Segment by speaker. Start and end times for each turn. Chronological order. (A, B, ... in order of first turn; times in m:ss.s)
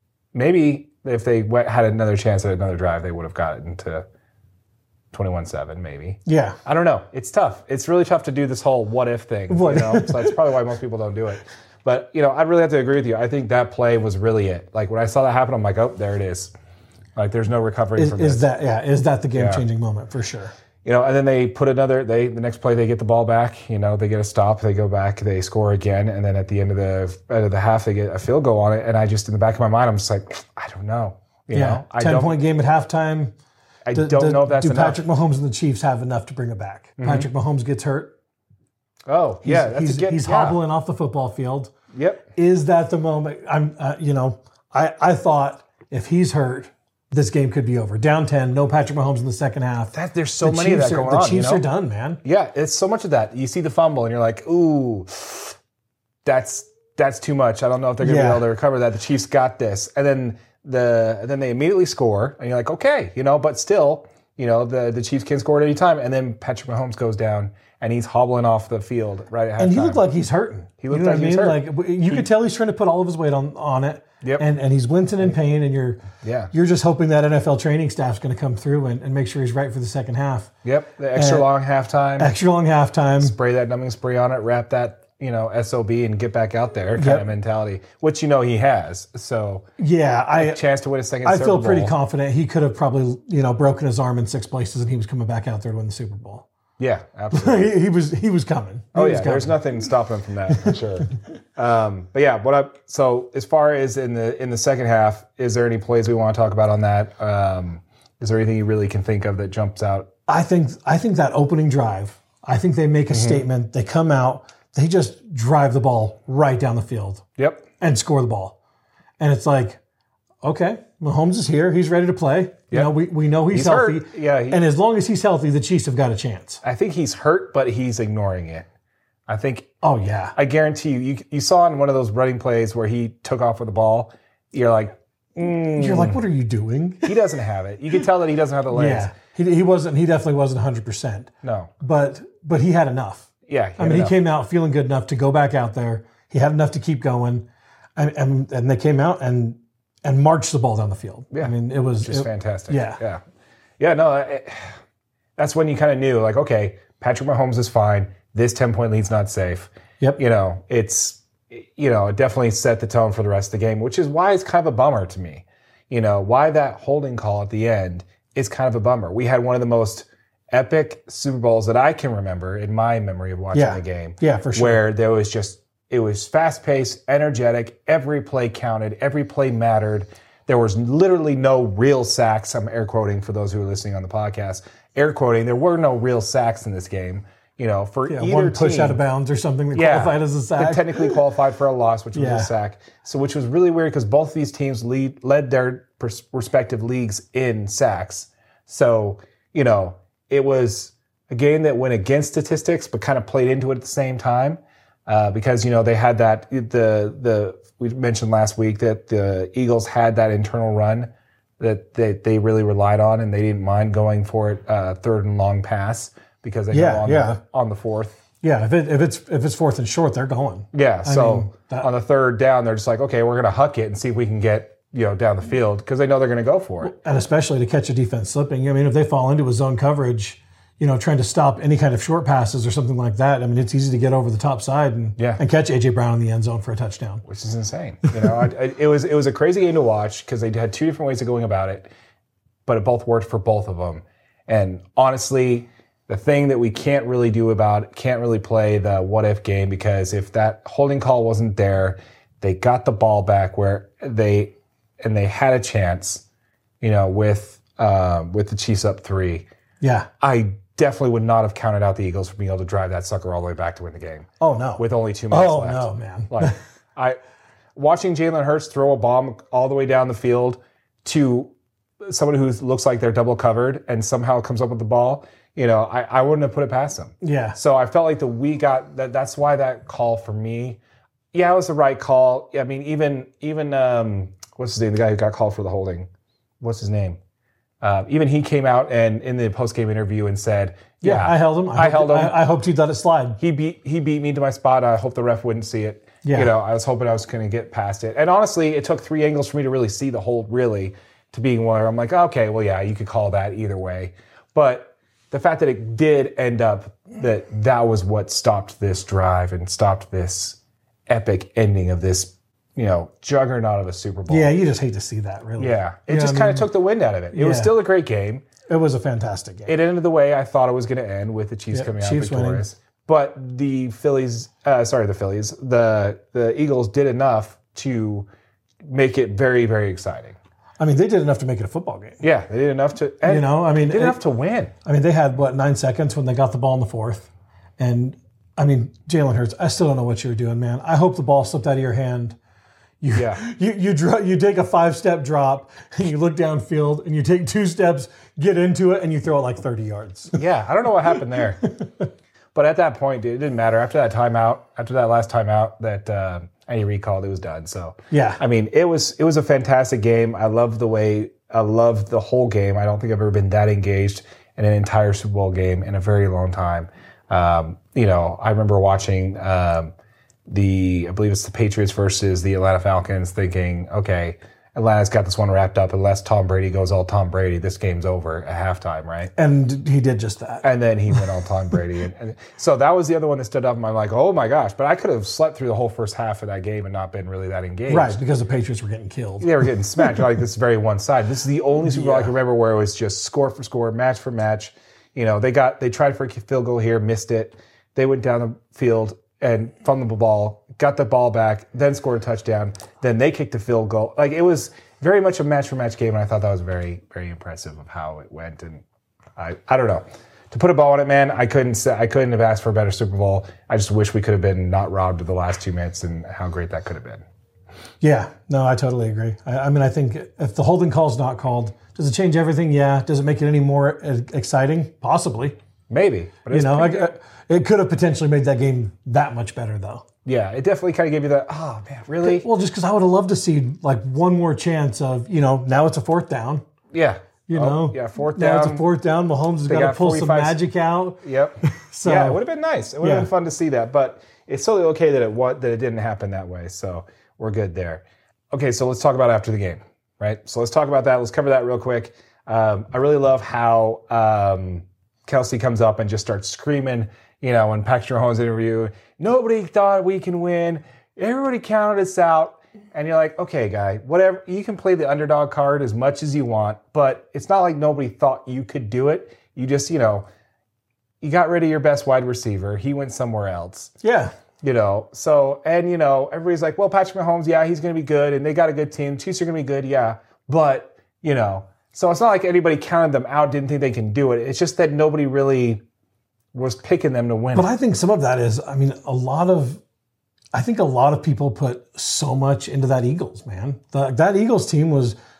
0:00.3-0:04.0 A
0:05.1-0:16.5 A
0:06.2-0:06.6 B
0:09.5-0:10.4 B
0:17.2-0:18.4 A
0:18.0-0:20.5 B
0:19.3-0:19.6 A
0:20.8-0:32.3 A
0:31.5-0:33.3 B
0:33.8-0:35.0 A
0:33.9-0:38.1 B
0:37.0-0:37.3 A
0:39.1-0:40.6 A
0:39.4-0:41.7 B
0:41.9-0:42.2 A
0:42.3-0:52.2 B
0:49.9-0:51.6 A
0:52.2-0:55.6 A
0:56.2-1:10.0 A
0:58.0-0:58.4 B
1:09.6-1:20.5 B
1:10.8-1:12.2 A
1:16.2-1:16.5 A
1:20.6-1:22.3 A
1:21.1-1:21.4 B
1:22.2-1:23.3 B
1:23.2-1:29.6 A
1:27.0-1:27.2 B
1:29.8-1:30.6 B
1:30.4-1:31.9 A
1:31.2-1:36.4 B
1:36.8-1:37.7 A
1:37.3-1:39.6 B
1:38.9-1:50.1 A
1:40.5-1:40.8 B
1:50.3-1:57.2 B
1:53.1-1:53.4 A
1:57.4-1:57.6 A
1:57.8-1:58.6 B
1:59.2-1:59.8 B
2:00.4-2:06.6 B
2:03.5-2:04.6 A
2:06.6-2:08.7 A
2:09.3-2:09.7 A
2:09.8-2:10.3 B
2:10.3-2:16.2 A
2:15.8-2:17.2 B
2:17.0-2:19.1 A
2:18.7-2:33.0 B
2:21.4-2:21.7 A
2:23.5-2:24.2 A
2:31.3-2:33.2 A
2:33.8-2:34.8 A
2:35.4-3:09.0 A
2:53.5-2:54.8 B
3:08.1-3:11.2 B
3:09.7-3:38.2 A
3:12.1-3:12.5 B
3:36.7-3:37.4 B
3:38.4-3:41.9 B
3:40.7-3:46.9 A
3:46.8-3:57.2 B
3:57.2-4:01.9 A
4:02.6-4:16.2 A
4:16.8-4:19.5 A
4:19.8-4:20.1 B
4:20.2-4:24.3 A
4:24.4-4:26.6 B
4:24.8-4:27.2 A
4:27.8-4:31.5 A
4:32.0-4:40.8 A
4:37.2-4:37.6 B
4:41.3-4:46.1 A
4:46.6-4:47.2 A
4:47.8-4:52.3 A
4:51.0-4:53.4 B
4:53.4-5:14.5 A
4:56.2-4:56.5 B
5:14.3-5:16.7 B
5:15.6-5:18.4 A
5:17.3-5:17.7 B
5:18.7-5:19.7 B
5:19.6-5:28.3 A
5:21.7-5:22.6 B
5:28.9-5:30.4 A
5:30.8-5:32.2 B
5:32.2-5:34.7 A
5:33.2-5:34.2 B
5:34.8-5:42.4 B
5:43.0-5:50.4 B
5:43.1-5:43.4 A
5:50.3-5:51.6 A
5:51.6-5:52.1 B
5:52.5-6:09.9 A
5:58.1-5:58.4 B
6:10.5-6:19.3 A
6:19.4-6:21.2 B
6:20.6-6:28.2 A
6:27.9-6:30.2 B
6:29.4-6:48.8 A
6:31.8-6:32.3 B
6:49.4-6:57.2 A
6:58.0-7:05.6 B
7:05.9-7:07.1 A
7:06.5-7:10.0 B
7:10.2-7:12.5 A
7:12.2-7:16.6 B
7:16.9-7:18.8 A
7:17.5-7:22.4 B
7:19.7-7:20.6 A
7:21.2-7:50.2 A
7:23.0-7:23.3 B
7:51.2-7:53.9 A
7:54.0-7:54.3 B
7:54.6-8:05.8 A
8:06.5-8:07.7 A
8:07.5-8:09.8 B
8:10.5-8:15.2 B